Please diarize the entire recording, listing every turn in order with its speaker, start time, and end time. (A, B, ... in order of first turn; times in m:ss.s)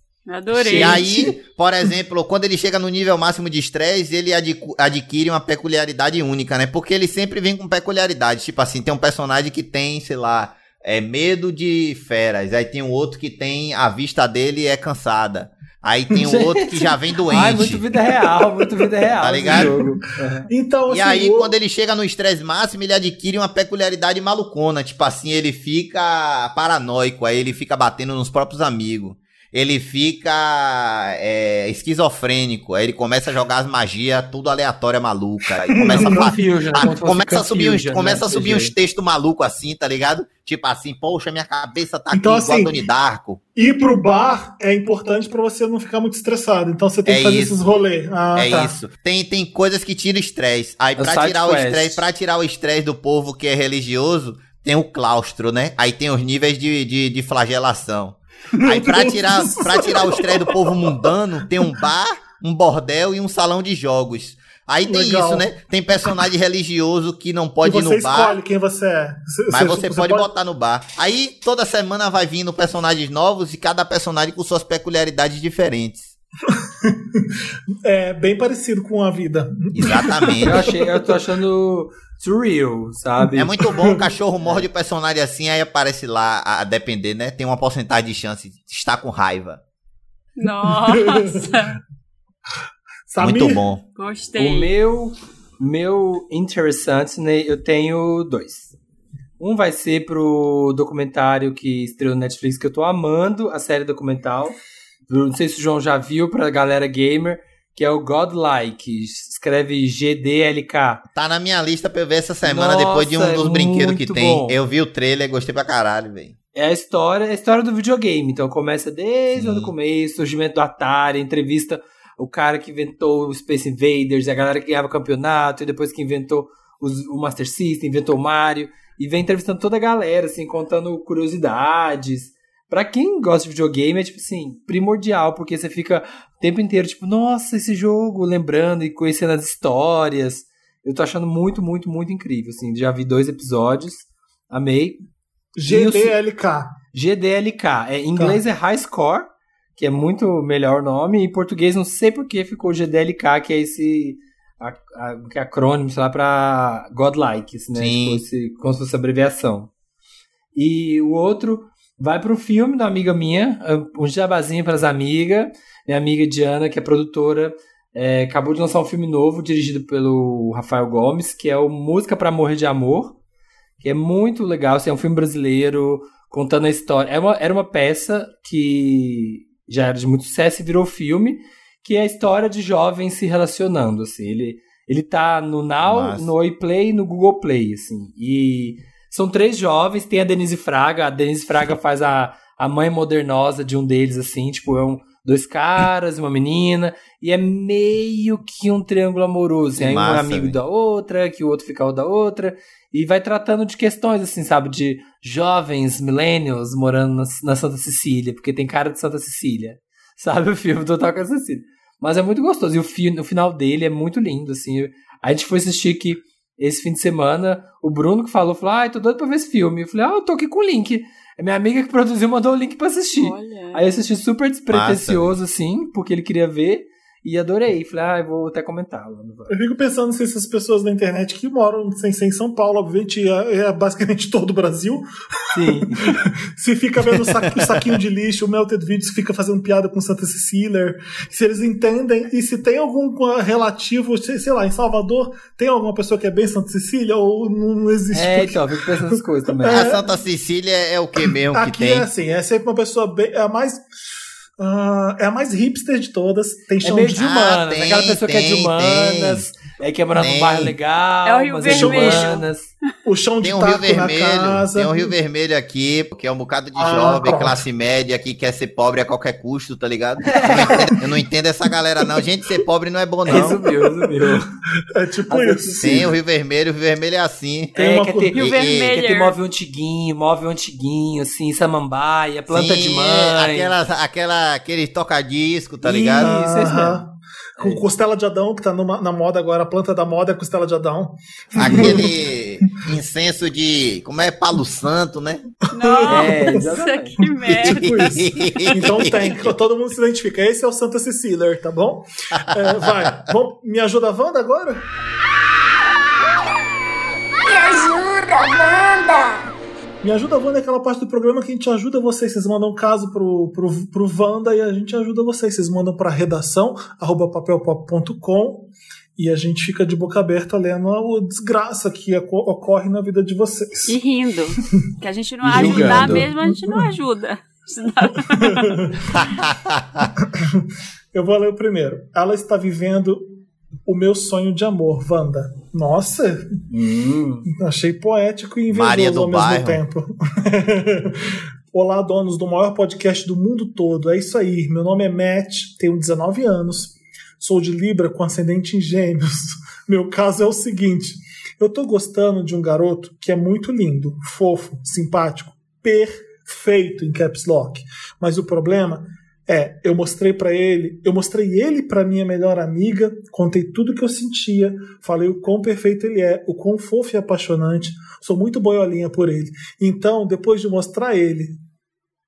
0:00.3-0:01.0 A
0:00.5-0:17.8 B
0:00.7-0:01.1 C
0:16.2-0:20.5 C
0:19.2-0:19.8 B
0:19.5-0:19.8 D
0:20.5-0:21.5 D
0:20.9-0:43.4 B
0:35.8-0:36.5 D
0:35.8-0:38.7 C
0:42.1-0:42.8 D
0:43.6-0:48.7 D
0:47.1-0:47.6 B
0:48.4-1:08.4 B
0:51.0-0:52.0 C
0:58.6-1:00.8 D
1:04.9-1:05.5 D
1:07.6-1:10.3 D
1:09.5-1:16.1 B
1:16.6-1:17.3 D
1:17.8-1:20.8 D
1:19.7-1:20.7 B
1:20.4-1:23.6 C
1:23.4-1:29.6 B
1:23.6-1:24.0 D
1:30.4-1:31.8 A
1:30.4-1:31.6 D
1:33.1-1:33.6 D
1:33.2-1:33.8 B
1:34.0-1:34.7 A
1:34.4-1:38.7 C
1:39.4-1:44.6 C
1:45.1-1:51.0 C
1:51.1-1:56.3 B
1:52.4-1:54.6 C
1:56.6-2:25.0 C
1:59.4-1:59.7 B
2:25.6-2:26.7 D
2:25.7-2:26.2 C
2:26.9-2:39.7 C
2:37.7-2:38.2 B
2:40.6-2:53.2 C
2:53.8-3:49.5 C
3:05.8-3:06.3 B
3:19.8-3:20.6 B
3:43.2-3:43.8 A
3:44.7-3:45.3 B
3:49.5-4:10.1 D
3:55.5-3:56.2 C
4:08.1-4:10.0 C
4:09.6-4:12.1 B
4:11.5-4:13.8 D
4:14.6-4:17.3 D
4:16.8-4:22.7 C
4:17.2-4:19.5 B
4:20.2-4:20.7 B
4:21.3-4:22.3 A
4:21.7-4:22.4 D
4:23.0-4:25.1 D
4:23.4-4:33.6 B
4:26.8-4:27.6 D
4:30.3-4:30.9 C
4:33.3-4:34.5 C
4:33.3-4:34.4 D
4:34.9-4:36.2 D
4:35.3-4:36.0 C
4:35.8-4:37.8 B
4:37.8-4:43.7 C
4:37.8-4:38.4 D
4:38.3-4:38.9 B
4:38.3-4:39.4 A
4:42.5-4:46.3 B
4:45.8-4:47.0 C
4:46.2-4:52.2 D
4:47.6-4:47.8 C
4:51.6-4:55.5 B
4:55.7-4:58.2 A
4:55.8-4:56.6 D
4:56.1-4:57.1 C
4:57.5-4:59.5 B
4:57.6-5:04.8 D
5:02.5-5:03.2 B
5:07.4-5:09.5 E
5:10.0-5:24.0 D
5:23.9-5:28.9 A
5:25.4-5:26.3 C
5:25.5-5:26.9 D
5:28.3-5:29.3 D
5:29.2-5:30.1 B
5:30.2-5:33.2 D
5:33.9-5:36.6 D
5:36.7-5:37.5 C
5:37.5-6:11.6 D
5:38.7-5:39.8 B